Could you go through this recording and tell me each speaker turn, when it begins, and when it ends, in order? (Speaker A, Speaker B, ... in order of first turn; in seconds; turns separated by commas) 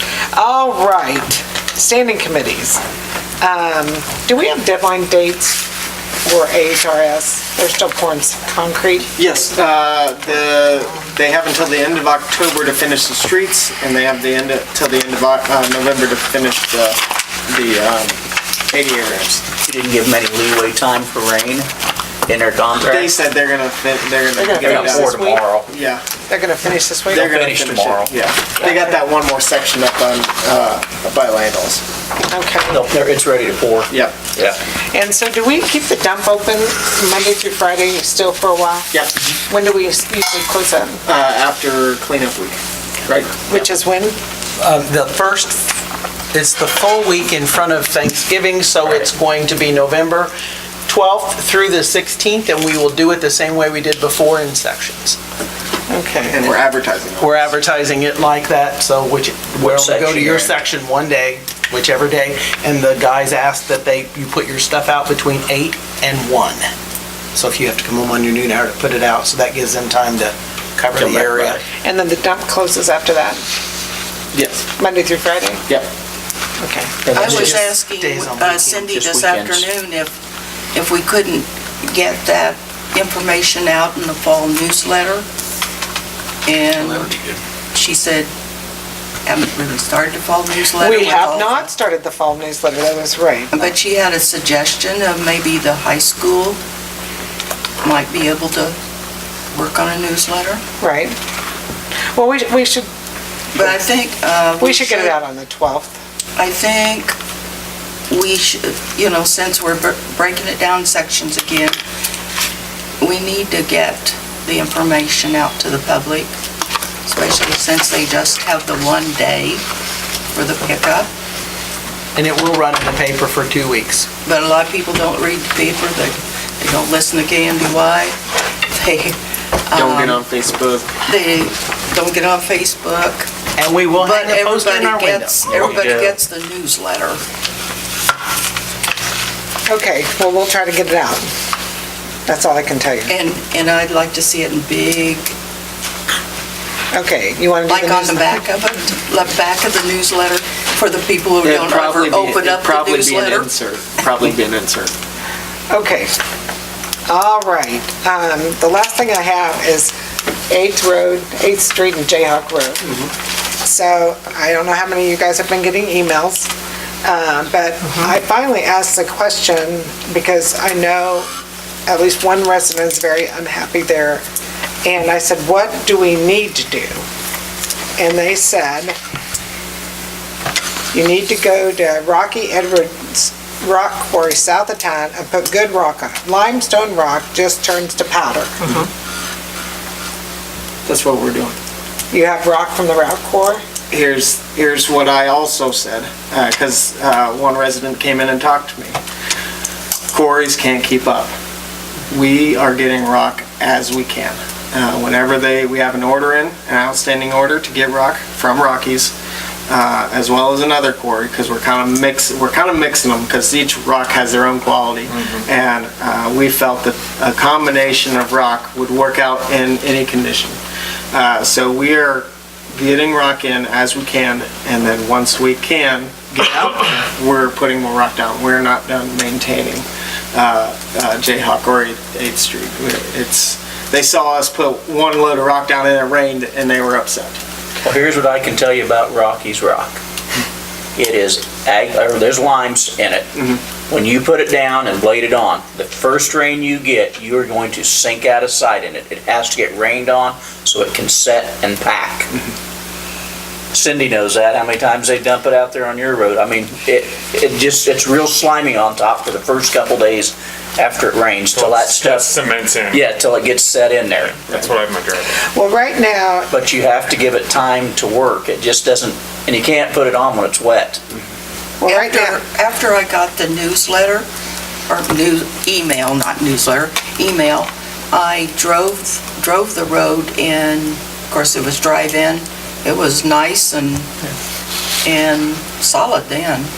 Speaker A: 0.3-2.8, Speaker A: 3.4-5.6, Speaker A: 6.2-9.1, Speaker B: 9.2-18.2, Speaker B: 18.7-19.4, Speaker C: 19.6-21.7, Speaker C: 22.3-23.1, Speaker B: 22.8-26.0, Speaker A: 24.4-25.4, Speaker C: 24.6-25.7, Speaker A: 26.3-27.3, Speaker B: 27.1-31.8, Speaker C: 27.1-28.2, Speaker A: 28.6-29.1, Speaker A: 32.3-32.9, Speaker C: 32.7-34.6, Speaker B: 33.9-34.2, Speaker A: 34.9-41.0, Speaker B: 41.0-43.4, Speaker A: 43.4-44.2, Speaker D: 44.6-45.6, Speaker D: 46.3-50.3, Speaker D: 50.9-55.2, Speaker A: 55.9-56.4, Speaker B: 56.2-57.5, Speaker D: 57.2-66.7, Speaker C: 59.6-60.5, Speaker D: 67.3-71.6, Speaker C: 71.0-71.6, Speaker A: 71.8-73.4, Speaker B: 74.3-74.6, Speaker A: 74.8-75.7, Speaker A: 76.6-77.0, Speaker C: 77.1-77.5, Speaker D: 77.1-78.9, Speaker E: 77.1-80.2, Speaker C: 78.9-79.7, Speaker E: 80.7-85.2, Speaker E: 86.5-87.1, Speaker C: 86.7-87.4, Speaker E: 87.7-88.3, Speaker E: 89.2-91.7, Speaker A: 90.8-93.7, Speaker E: 93.5-96.6, Speaker E: 97.8-98.7, Speaker E: 99.5-100.6, Speaker A: 100.8-101.2, Speaker A: 102.1-102.9, Speaker E: 103.5-105.2, Speaker A: 104.6-106.0, Speaker E: 106.4-107.2, Speaker E: 108.1-111.8, Speaker E: 113.0-116.3, Speaker E: 117.0-119.6, Speaker E: 120.3-121.1, Speaker D: 122.2-124.1, Speaker E: 124.2-128.2, Speaker E: 128.7-129.2, Speaker E: 129.7-130.2, Speaker B: 129.7-130.9, Speaker E: 131.0-133.3, Speaker D: 133.6-135.8, Speaker E: 134.0-137.2, Speaker F: 135.5-136.1, Speaker A: 139.7-141.3, Speaker A: 142.3-143.1, Speaker E: 143.1-145.3, Speaker A: 146.9-148.4, Speaker E: 147.7-153.5, Speaker B: 151.4-154.9, Speaker A: 155.7-156.1, Speaker A: 157.1-159.9, Speaker A: 160.5-162.9, Speaker A: 163.6-166.5, Speaker A: 167.0-171.3, Speaker A: 171.9-174.2, Speaker A: 174.8-177.0, Speaker A: 178.0-179.0, Speaker A: 180.9-188.9, Speaker B: 190.8-191.6, Speaker A: 192.1-193.6, Speaker B: 193.9-199.0, Speaker B: 200.1-201.3, Speaker B: 202.1-209.1, Speaker B: 209.7-220.6, Speaker F: 215.1-215.4, Speaker B: 221.1-237.4, Speaker C: 237.8-240.0, Speaker C: 240.9-243.3, Speaker C: 243.9-252.3, Speaker C: 253.7-262.4, Speaker F: 261.5-263.1, Speaker C: 262.9-264.4, Speaker F: 264.1-265.4, Speaker A: 265.4-266.5, Speaker C: 266.5-271.0, Speaker A: 271.8-272.4, Speaker E: 271.8-274.2, Speaker E: 274.9-284.2, Speaker E: 285.0-286.7